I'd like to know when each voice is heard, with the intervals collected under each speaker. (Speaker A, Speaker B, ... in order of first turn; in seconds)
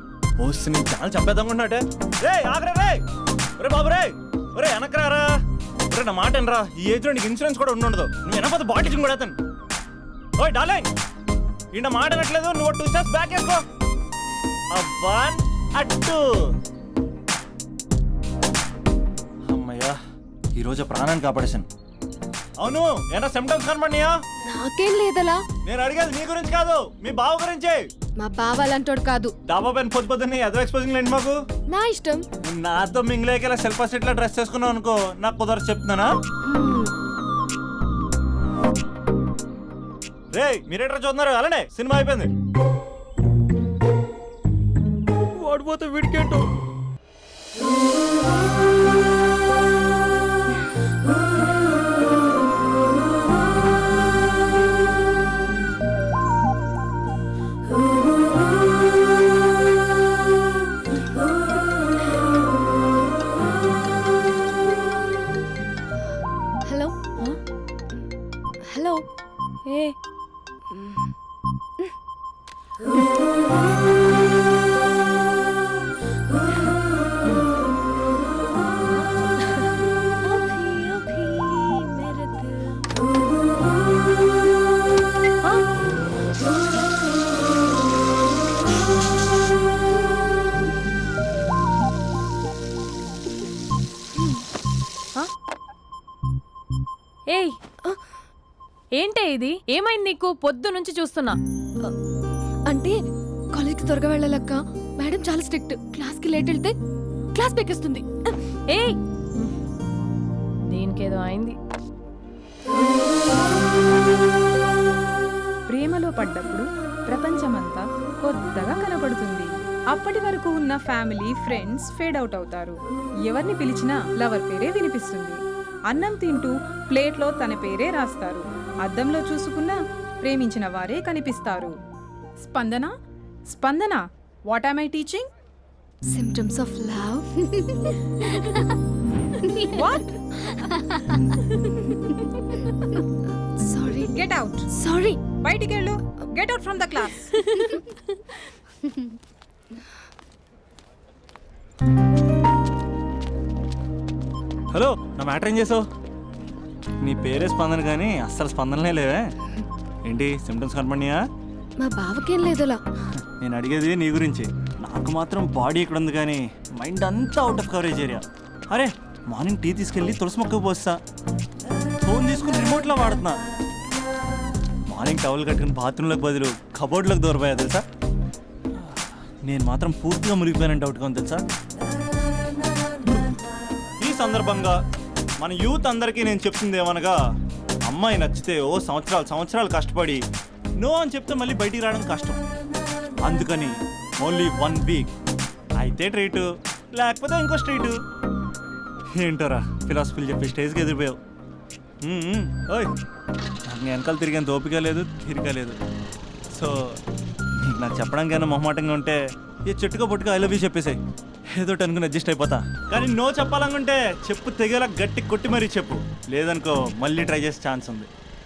Speaker A: 0.4-3.0, 3.6-5.3, 5.9-9.4, 10.4-10.9, 11.7-13.6, 14.7-16.2, 19.5-20.0, 20.6-21.7, 22.6-24.1, 25.6-27.9, 29.5-31.4, 32.4-36.1, 40.3-42.3, 45.4-46.5, 154.7-155.8, 157.0-159.3, 160.1-161.2, 163.2-171.0, 172.0-173.4, 174.9-177.8, 178.8-181.4, 184.0-184.8, 185.4-187.2, 187.9-190.2, 190.8-192.4, 193.2-195.1, 195.8-198.0, 199.2-201.2, 202.0-202.9, 203.7-205.8, 206.5-207.0, 207.6-211.0, 211.5-218.1
Speaker B: 24.4-25.4, 28.2-29.3, 31.7-32.2, 36.4-36.9, 66.7-66.9, 68.7-69.0, 70.7-71.1, 80.3-82.7, 102.7-103.0, 103.5-106.7, 107.3-108.3, 136.1-137.9, 143.6-144.1, 144.8-145.2, 161.8-162.8
Speaker C: 69.7-70.0, 97.3-97.6, 99.0-101.4, 108.7-109.6, 110.7-111.6
Speaker D: 115.7-125.4, 125.9-131.7, 132.4-132.9, 133.5-135.3, 139.6-140.2, 144.1-144.7, 145.4-147.3